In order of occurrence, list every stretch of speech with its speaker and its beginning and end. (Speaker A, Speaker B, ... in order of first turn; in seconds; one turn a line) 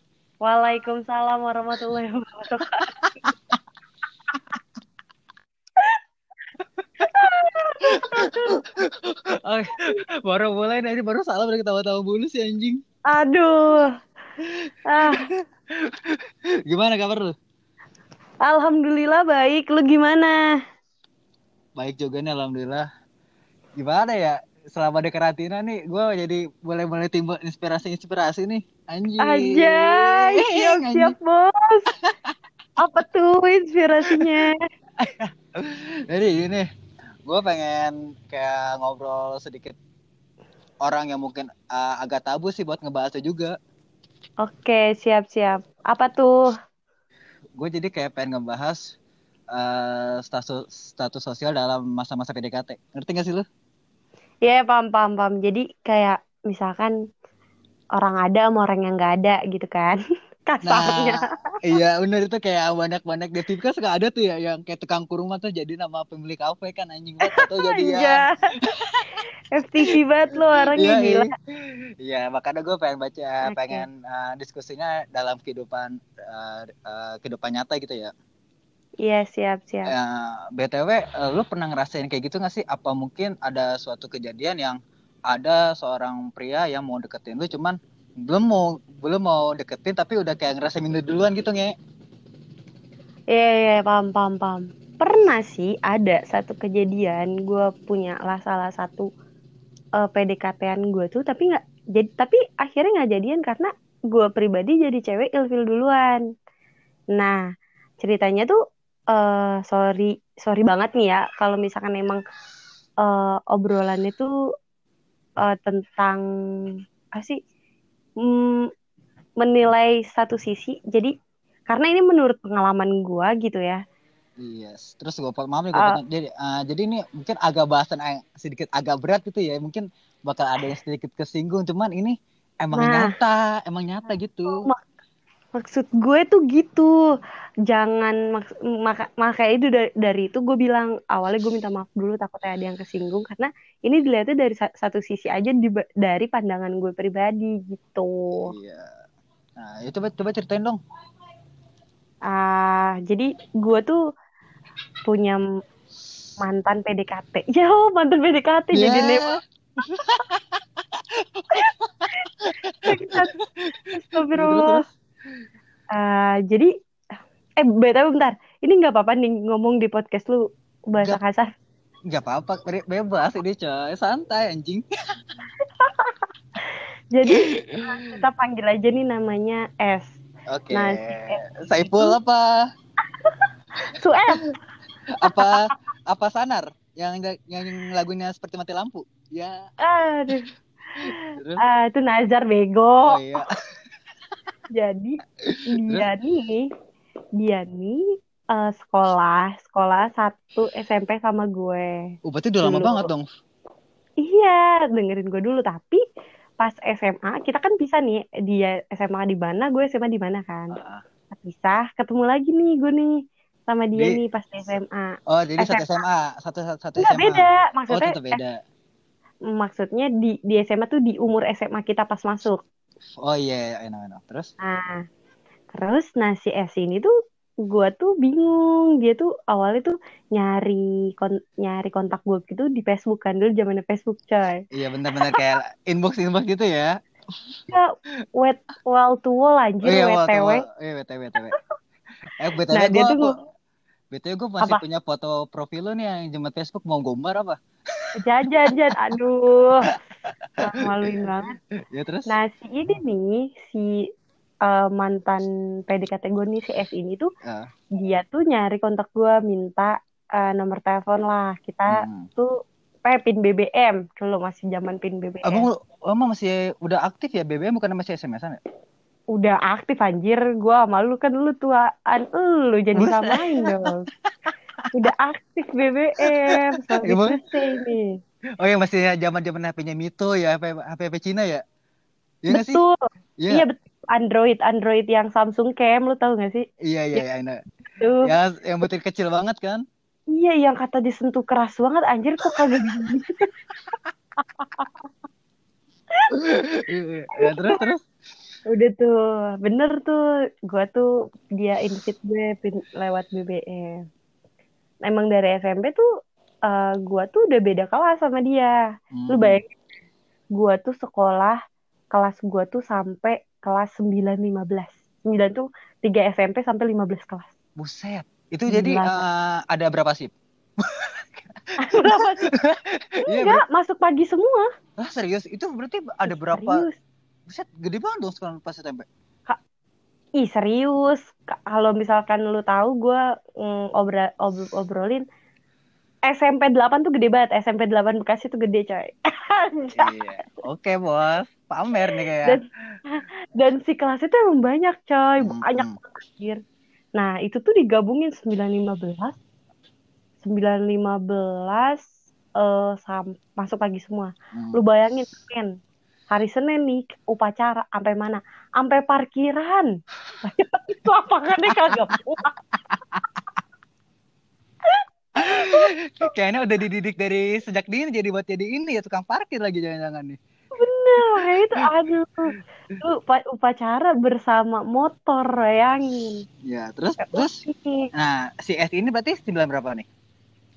Speaker A: 0.4-3.3
Speaker B: 2.6-3.5
Speaker B: 6.8-7.1
Speaker A: 7.0-8.8
Speaker B: 7.8-12.8
Speaker A: 13.1-14.0
Speaker B: 14.6-16.0
Speaker A: 14.8-15.2
Speaker B: 16.7-17.3
Speaker A: 18.4-20.4
Speaker B: 21.8-22.9
Speaker B: 23.8-31.1
Speaker A: 29.2-31.9
Speaker B: 32.0-32.3
Speaker A: 32.8-34.6
Speaker B: 34.0-34.3
Speaker B: 35.0-36.6
Speaker B: 37.2-39.8
Speaker B: 40.8-43.5
Speaker A: 44.4-46.5
Speaker B: 47.6-48.8
Speaker B: 49.5-53.5
Speaker A: 54.4-56.9
Speaker A: 58.0-61.2
Speaker B: 60.6-69.2
Speaker A: 67.3-68.3
Speaker A: 69.5-71.3
Speaker B: 70.5-71.3
Speaker B: 72.0-78.1
Speaker A: 73.5-73.8
Speaker A: 79.0-79.9
Speaker B: 79.9-84.8
Speaker B: 85.3-91.7
Speaker A: 93.3-99.1
Speaker A: 100.0-106.2
Speaker A: 107.1-107.4
Speaker A: 108.0-108.6
Speaker A: 109.1-112.2
Speaker A: 113.0-114.3
Speaker A: 115.4-116.2
Speaker A: 118.2-118.7
Speaker A: 119.4-121.1
Speaker A: 121.7-123.8
Speaker B: 124.4-134.7
Speaker A: 132.7-133.1
Speaker A: 134.5-134.8
Speaker A: 135.5-137.1
Speaker A: 137.7-148.5
Speaker B: 148.5-148.9
Speaker B: 149.6-150.8
Speaker A: 152.3-154.0
Speaker A: 155.1-155.4
Speaker A: 156.4-159.3
Speaker B: 158.7-160.4
Speaker B: 161.2-164.9
Speaker A: 162.8-163.3
Speaker A: 163.9-164.8
Speaker A: 165.9-166.7
Speaker A: 167.6-171.5
Speaker B: 172.1-174.8
Speaker A: 175.6-180.2
Speaker B: 177.3-178.2
Speaker B: 180.5-182.6
Speaker A: 180.7-182.2
Speaker A: 183.0-184.4
Speaker B: 185.1-189.7
Speaker A: 185.2-185.7
Speaker A: 189.8-190.5
Speaker A: 191.0-193.4
Speaker B: 191.0-191.6
Speaker B: 193.0-193.6
Speaker A: 194.7-196.7
Speaker B: 195.4-196.1
Speaker A: 197.4-202.0
Speaker B: 202.2-203.3
Speaker A: 202.6-203.1
Speaker A: 204.2-206.0
Speaker A: 206.6-210.8
Speaker B: 210.7-211.0
Speaker A: 211.3-213.1
Speaker A: 213.7-215.9
Speaker B: 213.9-214.2
Speaker B: 215.3-218.6
Speaker A: 217.0-218.4
Speaker A: 219.5-222.6
Speaker B: 223.2-224.5
Speaker A: 224.6-225.0
Speaker A: 225.7-227.1
Speaker A: 227.7-234.6
Speaker B: 234.7-237.0
Speaker A: 235.2-235.5
Speaker A: 237.7-240.6
Speaker B: 239.8-241.6
Speaker B: 242.3-243.3
Speaker A: 242.7-243.3
Speaker B: 244.1-248.1
Speaker A: 248.2-249.8
Speaker B: 248.7-248.9
Speaker B: 249.9-252.3
Speaker A: 250.6-251.6
Speaker A: 252.3-254.0
Speaker A: 254.6-257.3
Speaker B: 257.4-257.7
Speaker A: 257.9-265.7
Speaker B: 261.9-262.3
Speaker B: 265.4-268.6
Speaker A: 269.3-274.1
Speaker B: 272.9-273.9
Speaker A: 274.9-278.2
Speaker B: 276.2-277.8
Speaker B: 278.6-281.6
Speaker B: 282.4-282.8
Speaker A: 282.5-282.9
Speaker B: 283.4-283.6
Speaker A: 283.5-287.2
Speaker B: 286.8-287.6
Speaker A: 287.9-288.2
Speaker B: 288.2-289.8
Speaker A: 290.3-293.5
Speaker B: 292.4-293.0
Speaker A: 294.4-295.1
Speaker B: 296.3-298.0
Speaker A: 297.4-297.8
Speaker A: 298.7-304.0
Speaker A: 305.0-306.0
Speaker A: 306.7-309.7
Speaker B: 309.1-309.6
Speaker A: 310.5-311.6
Speaker A: 312.1-317.5
Speaker B: 317.8-321.2
Speaker A: 318.7-319.2
Speaker B: 321.8-323.6
Speaker A: 321.8-322.5
Speaker A: 323.2-324.7
Speaker B: 325.0-326.9
Speaker A: 326.3-326.9
Speaker B: 327.5-329.1
Speaker A: 330.4-335.2
Speaker A: 336.2-340.2
Speaker B: 339.9-343.0
Speaker A: 342.1-346.6
Speaker B: 345.4-346.0
Speaker A: 347.2-349.4
Speaker A: 350.4-352.0
Speaker A: 352.6-355.7
Speaker B: 354.5-354.8
Speaker A: 356.3-359.9
Speaker A: 360.4-362.6
Speaker B: 361.7-362.1
Speaker B: 363.1-363.4
Speaker A: 364.8-365.9
Speaker B: 365.4-370.4
Speaker A: 370.7-376.4
Speaker B: 371.2-371.9
Speaker B: 376.6-377.6
Speaker A: 377.2-378.1
Speaker B: 378.1-380.1